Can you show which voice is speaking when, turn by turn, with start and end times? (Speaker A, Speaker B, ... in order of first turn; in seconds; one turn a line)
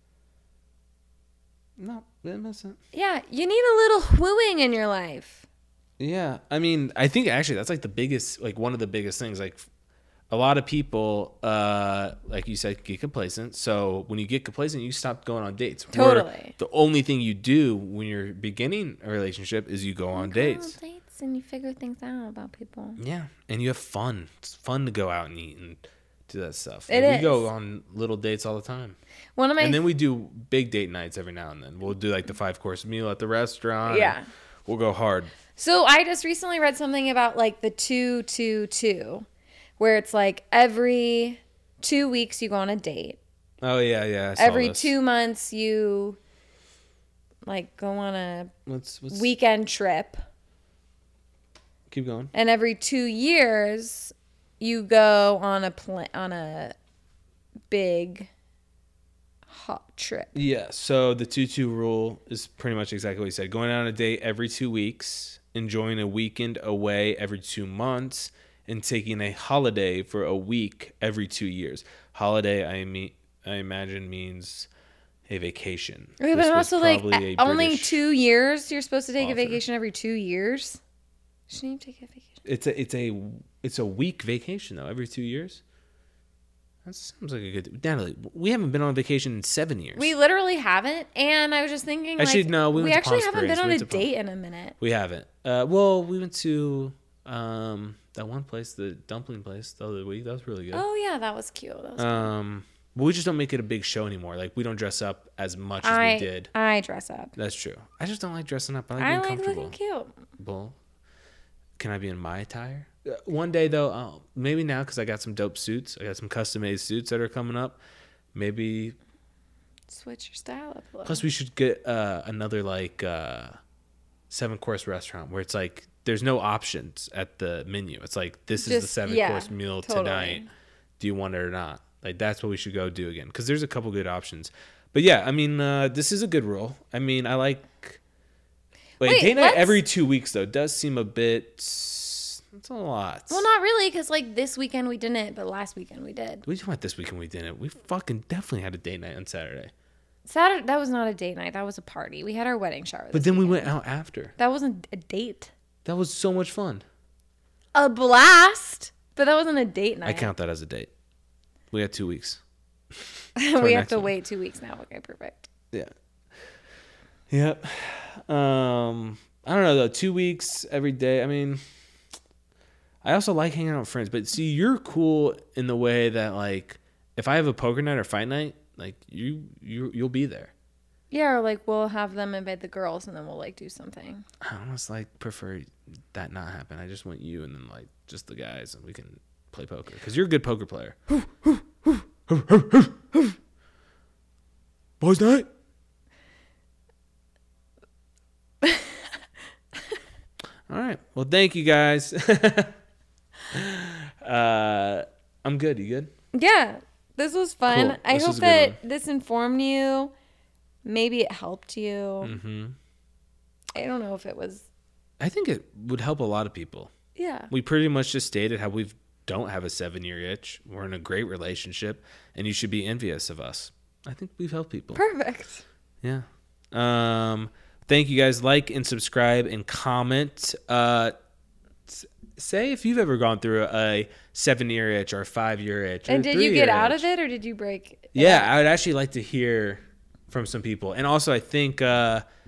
Speaker A: 1.8-2.8
Speaker B: 2.9-5.5
Speaker A: 6.0-9.7
Speaker A: 10.3-20.8
Speaker B: 15.9-16.6
Speaker B: 20.1-23.0
Speaker A: 23.0-29.0
Speaker B: 26.9-27.5
Speaker B: 29.4-29.9
Speaker A: 29.6-35.4
Speaker B: 33.9-34.3
Speaker B: 35.5-39.3
Speaker B: 39.8-43.2
Speaker A: 43.6-44.9
Speaker B: 44.4-46.2
Speaker B: 47.5-48.5
Speaker A: 48.7-49.3
Speaker B: 49.1-50.2
Speaker A: 51.9-52.3
Speaker B: 52.3-56.8
Speaker B: 57.7-58.3
Speaker B: 59.5-60.4
Speaker A: 60.4-74.7
Speaker A: 75.3-78.0
Speaker B: 76.2-80.8
Speaker A: 79.2-79.6
Speaker B: 81.5-82.3
Speaker A: 82.4-85.6
Speaker A: 86.8-90.1
Speaker B: 90.0-94.8
Speaker A: 92.2-94.1
Speaker A: 94.8-100.8
Speaker B: 100.7-102.3
Speaker A: 102.0-106.5
Speaker B: 105.8-107.3
Speaker A: 107.4-109.7
Speaker B: 109.0-110.2
Speaker A: 110.4-110.8
Speaker A: 111.8-117.8
Speaker A: 118.3-119.0
Speaker B: 119.9-121.2
Speaker A: 121.0-123.6
Speaker A: 124.3-130.5
Speaker B: 128.6-130.5
Speaker A: 131.0-138.0
Speaker A: 139.0-143.4
Speaker B: 139.0-139.8
Speaker B: 143.3-146.4
Speaker A: 146.5-149.7
Speaker B: 150.3-153.7
Speaker A: 153.1-154.3
Speaker B: 154.4-155.5
Speaker A: 155.8-156.8
Speaker B: 157.8-160.3
Speaker A: 160.1-160.9
Speaker A: 161.7-162.4
Speaker A: 162.9-164.1
Speaker B: 163.4-165.5
Speaker A: 167.3-171.6
Speaker A: 173.0-180.5
Speaker B: 181.1-184.2
Speaker A: 184.4-193.3
Speaker A: 195.0-195.5
Speaker B: 198.6-199.1
Speaker A: 200.7-202.8
Speaker A: 203.5-206.1
Speaker B: 206.3-210.1
Speaker A: 207.7-208.8
Speaker B: 210.8-212.4
Speaker A: 212.2-212.8
Speaker B: 213.8-214.7
Speaker A: 215.2-216.9
Speaker B: 217.2-217.5
Speaker A: 217.5-225.0
Speaker B: 224.9-225.6
Speaker A: 226.0-231.2
Speaker A: 231.9-237.1
Speaker B: 236.1-238.5
Speaker A: 238.1-242.2